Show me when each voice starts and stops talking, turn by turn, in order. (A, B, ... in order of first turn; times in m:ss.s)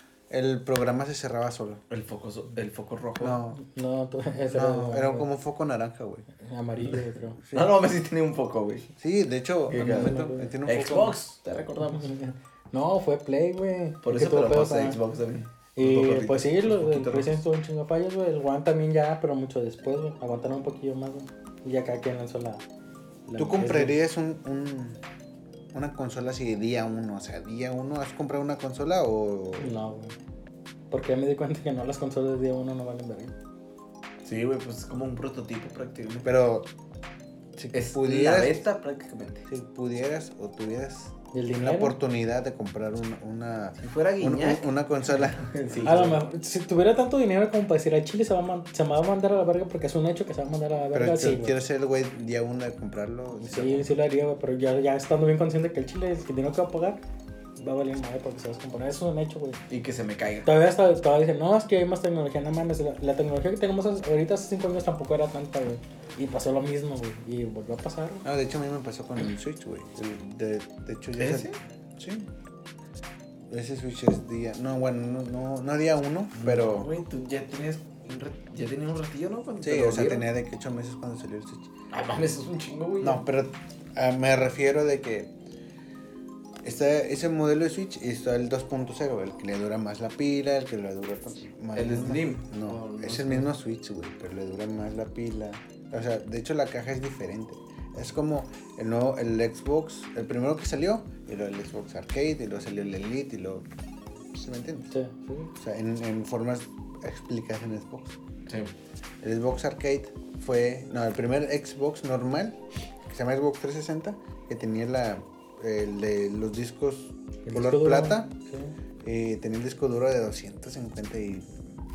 0:00.3-0:01.8 A
0:01.9-0:03.4 B
0:03.2-0:03.6 A
0:03.6-0:05.3 C
0:04.4-0:06.3 A
0:06.4-0:07.4 C
0:06.8-0:08.9 B
0:07.4-0:07.7 A
0:09.0-0:11.2 A
0:09.7-0:10.5 C
0:09.7-0:12.1 B
0:11.8-0:15.0 C
0:14.0-0:17.4 B
0:15.8-0:22.6 C
0:23.3-0:24.0 C
0:23.4-0:25.0 A
0:25.7-0:29.7 A
0:29.6-0:30.1 C
0:30.9-0:33.3 C
0:34.2-0:36.3 B
0:36.2-0:36.7 A
0:37.6-0:38.6 A
0:37.7-0:39.5 B
0:39.5-0:46.1 A
0:41.3-0:42.0 C
0:43.8-0:44.7 B
0:45.2-0:46.2 B
0:45.8-0:51.6 C
0:50.9-0:53.9 A
0:53.4-0:57.0 C
0:57.6-0:59.6 C
0:59.7-1:00.5 B
1:00.4-1:08.2 C
1:08.2-1:12.3 A
1:11.2-1:11.6 B
1:13.5-1:16.9 A
1:16.4-1:20.2 B
1:19.6-1:21.7 A
1:21.9-1:23.2 B
1:23.0-1:25.3 A
1:26.6-1:43.7 A
1:31.7-1:33.5 B
1:44.3-1:44.9 A
1:44.9-1:45.5 C
1:45.6-1:48.2 A
1:49.2-1:58.3 A
1:57.4-1:58.7 C
1:59.0-2:01.6 A